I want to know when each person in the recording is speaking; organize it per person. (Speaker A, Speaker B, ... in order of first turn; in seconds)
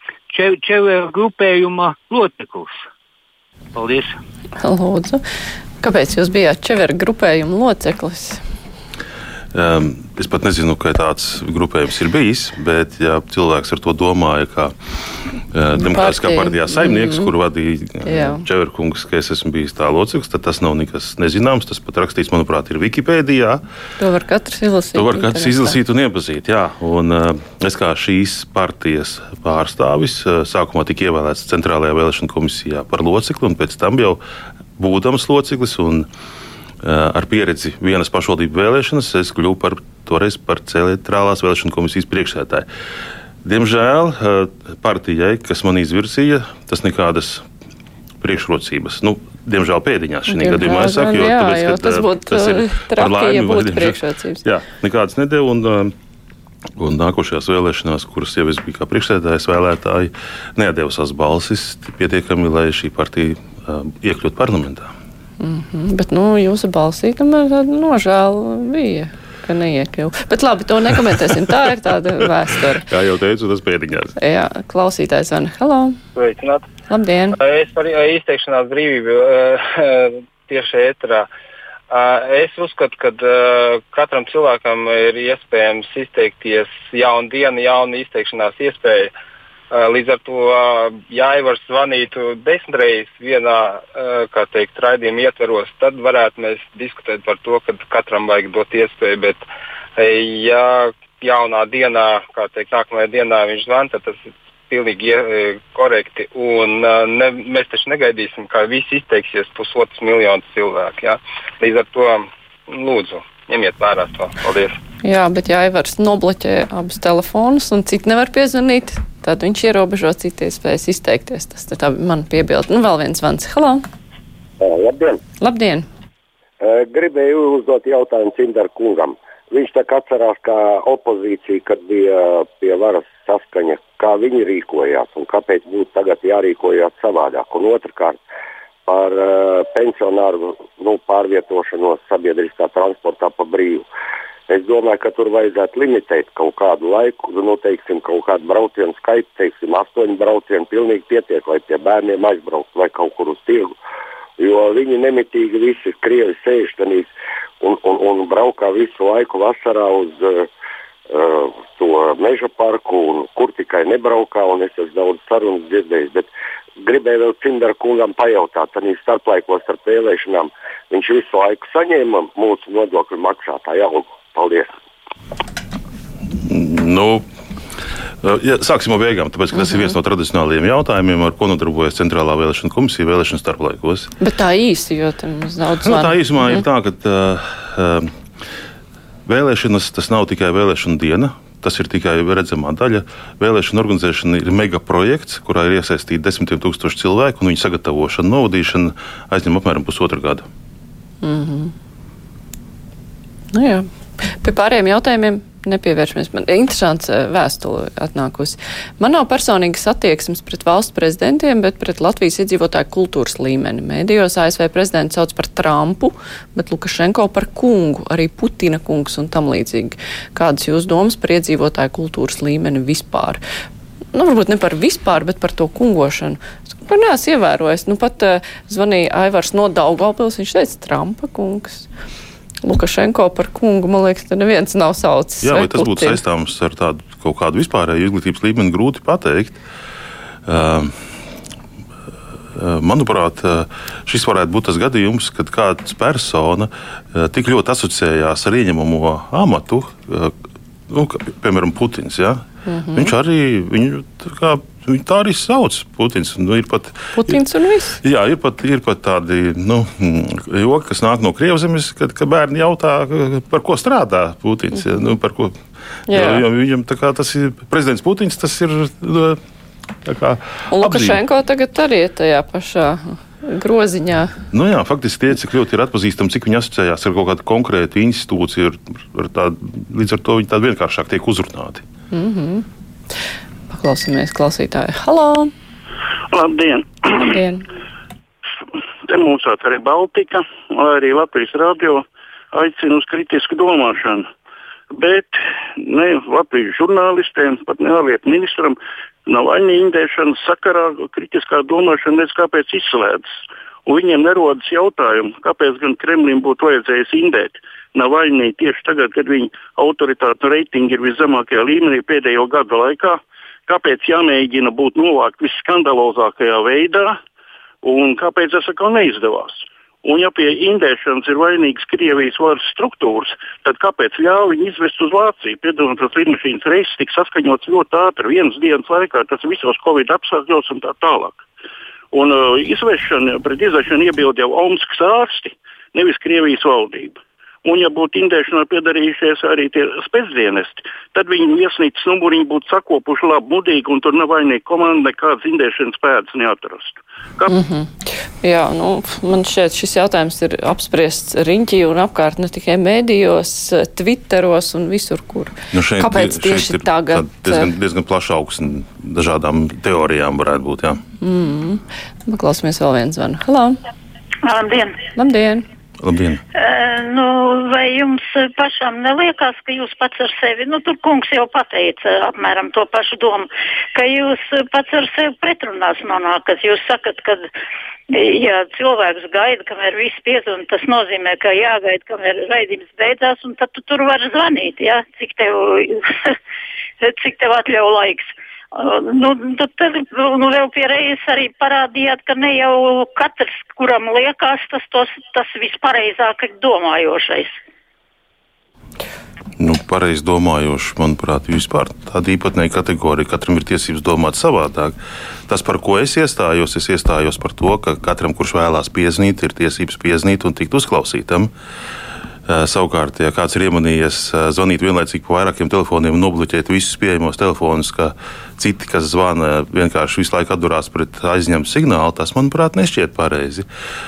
Speaker A: 0.3-2.8, 3.7-4.2
Speaker B: 4.6-5.2, 5.8-8.4, 15.8-17.3, 18.0-18.4, 24.0-25.8, 50.3-54.4, 65.4-72.9, 74.2-76.0, 76.9-77.4, 115.0-123.8, 125.4-125.8, 179.5-179.9, 184.2-186.6, 201.2-201.7, 203.5-223.4, 224.1-231.9, 232.6-236.2, 252.7-253.1, 257.1-258.0, 266.1-266.4, 270.7-274.3, 282.1-282.6, 283.7-285.5, 287.1-287.6, 347.5-357.7, 361.2-363.8, 365.1-365.6
Speaker C: 9.5-14.7, 15.5-23.6, 24.9-34.2, 34.8-36.1, 36.8-42.7, 43.4-47.4, 48.2-55.9, 56.8-64.9, 72.9-74.1, 176.4-177.2, 178.2-184.1, 185.8-188.1, 189.3-200.4, 235.4-239.6, 240.4-240.9, 242.5-250.3, 250.9-257.4, 258.0-265.6, 266.1-269.4, 270.0-271.2, 274.5-281.8, 355.7-361.0, 366.0-366.4, 399.6-404.9, 405.5-411.5, 412.5-423.6
Speaker D: 76.1-76.7, 77.3-81.3, 81.9-89.1, 89.7-99.4, 100.0-114.8
Speaker E: 124.6-125.2, 126.6-138.2, 138.8-143.9, 144.5-153.7, 154.4-157.1, 157.6-160.5, 161.1-166.3, 166.8-174.7
Speaker F: 286.3-287.3, 289.1-294.3, 294.9-303.3, 303.9-317.2, 317.8-331.4, 332.1-347.5
Speaker G: 364.4-365.0, 366.5-377.5, 378.1-386.4, 387.0-397.5